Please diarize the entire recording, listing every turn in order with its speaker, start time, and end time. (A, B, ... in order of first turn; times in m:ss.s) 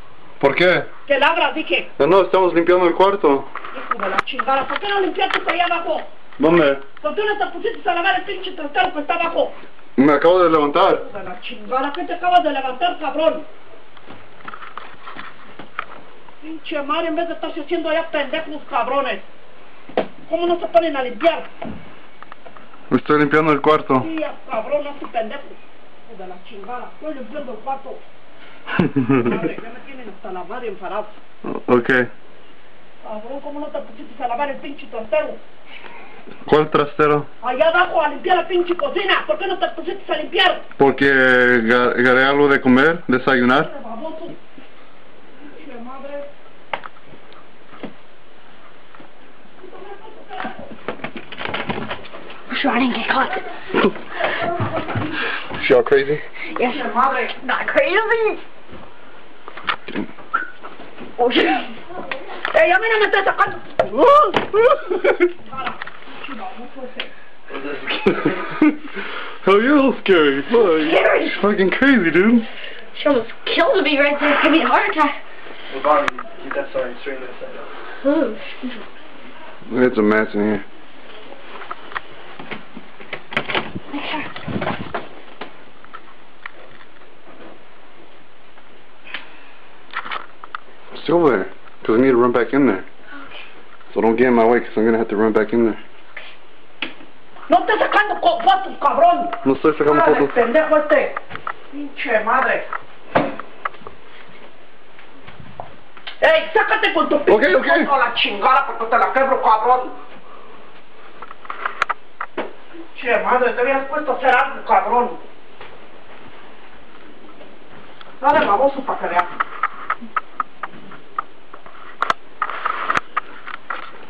0:00.4-0:00.9 A
0:01.0-0:01.9 B
0:02.0-0:03.5 A
0:03.7-0:06.1 B
0:06.4-0:06.8 A
0:07.0-0:09.6 B
0:10.0-0:11.0 A
0:10.9-0:13.4 B
0:16.4-0:19.2 B
0:20.2-0:21.5 B
0:22.9-0:24.1 A
0:24.0-0:28.0 B
0:29.1-0:31.1 B
0:31.4-0:32.1 A
0:33.0-0:35.4 B
0:36.5-0:37.3 A
0:37.4-0:40.6 B
0:40.8-0:43.7 A
0:43.6-0:44.4 B
0:45.4-0:46.3 B
0:49.6-0:50.7 B
0:52.5-0:53.4 C
0:54.3-0:55.3 B
0:55.6-0:56.2 A
0:56.5-0:56.8 C
0:56.6-0:57.4 B
0:57.4-0:58.4 C
1:01.2-1:01.7 B
1:02.5-1:03.8 B
1:04.2-1:05.0 A
1:05.4-1:07.1 B
1:07.5-1:08.4 D
1:08.4-1:08.8 A
1:09.4-1:12.4 A
1:10.8-1:11.3 B
1:12.9-1:15.2 C
1:15.7-1:17.7 D
1:18.0-1:18.8 C
1:19.7-1:20.6 A
1:23.9-1:24.3 C
1:30.9-1:32.8 A
1:33.9-1:35.8 A
1:37.5-1:41.2 B
1:39.4-1:40.3 A
1:41.7-1:42.7 B
1:46.2-1:50.0 B
1:47.3-1:47.9 A
1:52.9-1:55.2 B
1:58.2-1:59.3 B